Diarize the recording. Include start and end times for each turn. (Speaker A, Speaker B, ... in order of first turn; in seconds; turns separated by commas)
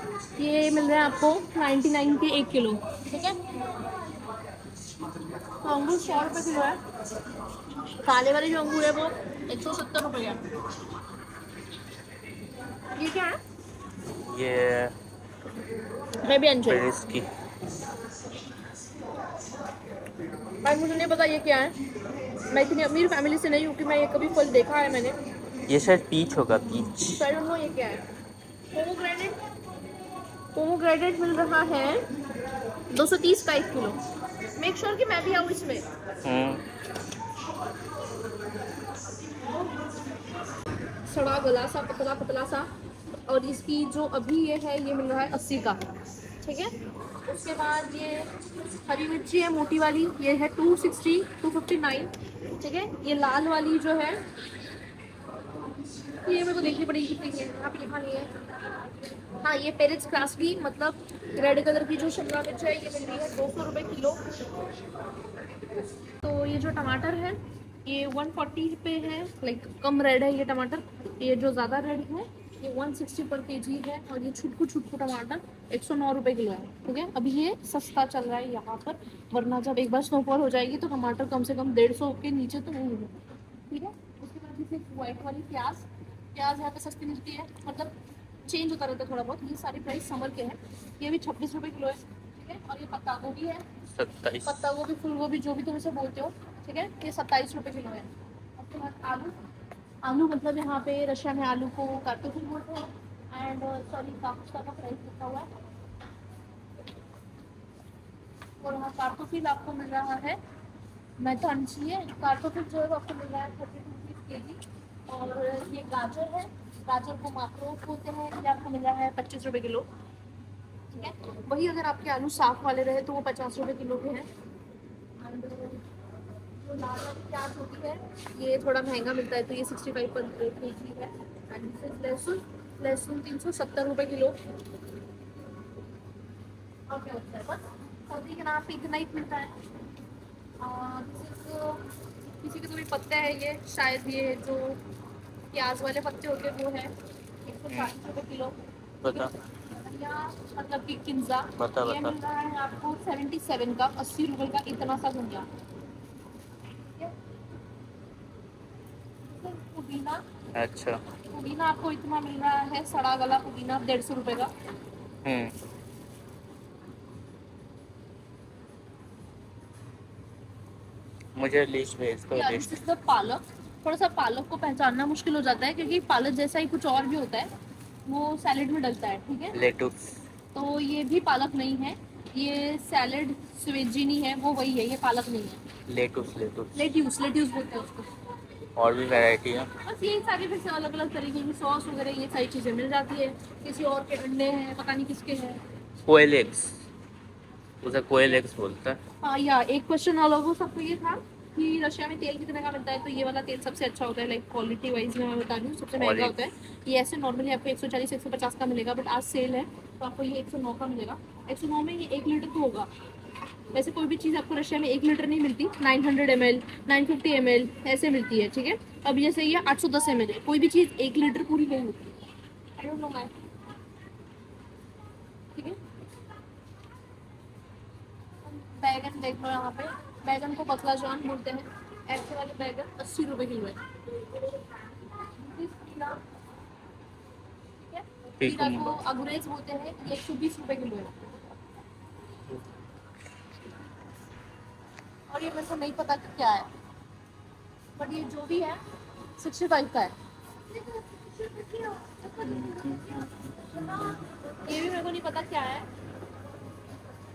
Speaker A: 0.4-3.5, Speaker A: 5.6-6.8, Speaker A: 8.0-10.4, Speaker A: 13.0-13.4, Speaker B: 14.2-14.9, Speaker A: 16.2-16.9, Speaker B: 16.7-17.3, Speaker A: 20.6-21.8, Speaker A: 22.5-25.1, Speaker B: 25.7-27.2, Speaker A: 27.2-28.0, Speaker A: 28.7-29.4, Speaker A: 30.6-32.1, Speaker A: 32.9-34.0, Speaker A: 34.6-35.9, Speaker B: 36.2-36.6, Speaker A: 41.1-42.7, Speaker A: 43.3-45.8, Speaker A: 46.4-46.7, Speaker A: 47.3-48.3, Speaker A: 48.9-54.2, Speaker A: 56.2-58.3, Speaker A: 59.4-64.2, Speaker A: 66.2-88.0, Speaker A: 88.5-93.7, Speaker B: 94.0-94.6, Speaker A: 94.5-99.4, Speaker A: 100.0-105.5, Speaker A: 108.6-110.4, Speaker A: 111.2-119.9, Speaker A: 120.9-124.3, Speaker A: 125.2-125.8, Speaker A: 126.6-134.4, Speaker A: 136.9-139.5, Speaker A: 140.6-141.8, Speaker A: 142.4-144.8, Speaker A: 145.5-146.9, Speaker A: 147.5-148.6, Speaker B: 149.0-149.3, Speaker A: 149.1-155.5, Speaker B: 151.6-152.2, Speaker A: 159.3-160.2, Speaker B: 160.5-161.0, Speaker A: 161.3-164.5, Speaker B: 165.2-165.5, Speaker B: 171.4-172.8, Speaker A: 172.3-177.5, Speaker A: 178.1-179.6, Speaker B: 179.5-180.1, Speaker A: 180.5-185.6, Speaker B: 185.9-186.8, Speaker A: 186.8-188.1, Speaker B: 188.8-189.7, Speaker A: 189.8-195.6, Speaker B: 196.1-196.8, Speaker B: 197.8-199.0, Speaker A: 199.2-212.9, Speaker B: 206.0-206.3, Speaker A: 213.7-222.1, Speaker A: 222.8-223.3, Speaker A: 228.5-236.2, Speaker A: 237.8-241.1, Speaker B: 238.4-239.0, Speaker A: 245.3-246.7, Speaker A: 248.0-248.8, Speaker A: 249.4-250.2, Speaker A: 250.7-255.9, Speaker B: 252.6-253.2